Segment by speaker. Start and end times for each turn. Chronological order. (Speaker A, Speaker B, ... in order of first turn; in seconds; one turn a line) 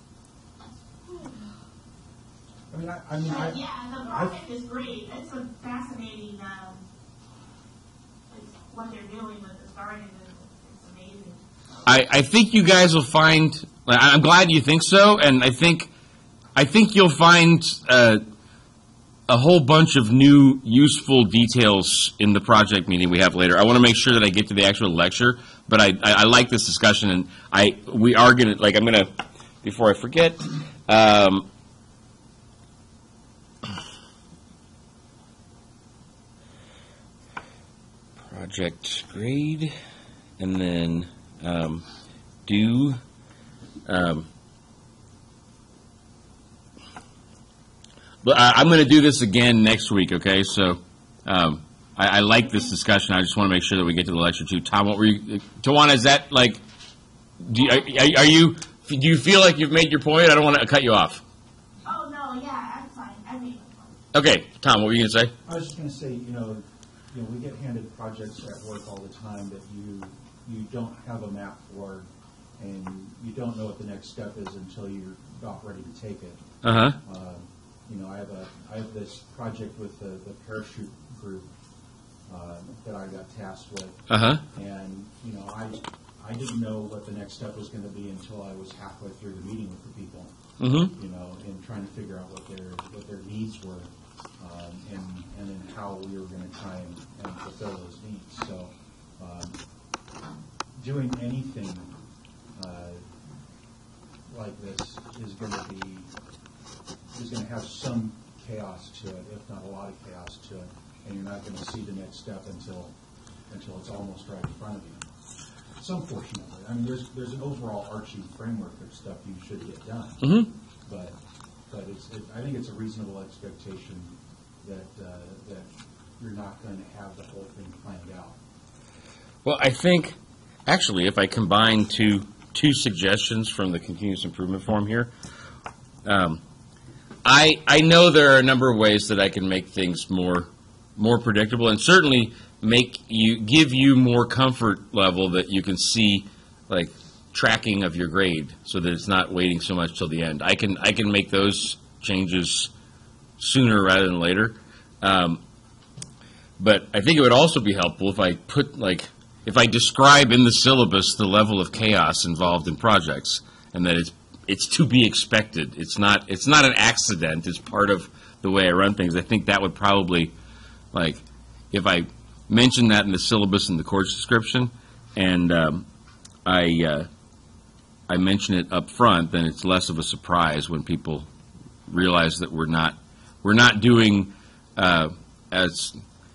Speaker A: 2.7-3.6
Speaker B: 3.2-6.8
Speaker A: 4.1-4.4
Speaker B: 8.3-11.8
Speaker C: 11.8-15.9
Speaker C: 16.5-18.2
Speaker C: 19.3-29.1
Speaker C: 29.6-31.5
Speaker C: 38.2-39.7
Speaker C: 40.4-41.8
Speaker C: 42.5-43.0
Speaker C: 43.9-44.3
Speaker C: 48.2-56.6
Speaker C: 57.4-61.2
Speaker B: 61.8-64.0
Speaker C: 64.1-65.3
Speaker A: 65.5-76.4
Speaker C: 76.6-77.0
Speaker A: 77.0-81.5
Speaker A: 82.3-84.0
Speaker C: 84.1-84.4
Speaker A: 84.5-90.3
Speaker C: 90.6-90.9
Speaker A: 90.9-99.6
Speaker A: 100.8-101.9
Speaker A: 102.6-103.0
Speaker A: 104.3-106.1
Speaker A: 107.1-112.9
Speaker A: 113.5-115.1
Speaker A: 115.8-120.3
Speaker C: 120.2-120.5
Speaker A: 120.8-121.2
Speaker A: 121.7-128.3
Speaker C: 129.4-135.1
Speaker C: 136.0-136.4
Speaker C: 137.2-152.7
Speaker C: 153.4-155.4
Speaker C: 156.6-170.3
Speaker C: 170.9-175.8
Speaker C: 176.4-177.1
Speaker C: 178.1-181.3
Speaker C: 181.9-186.0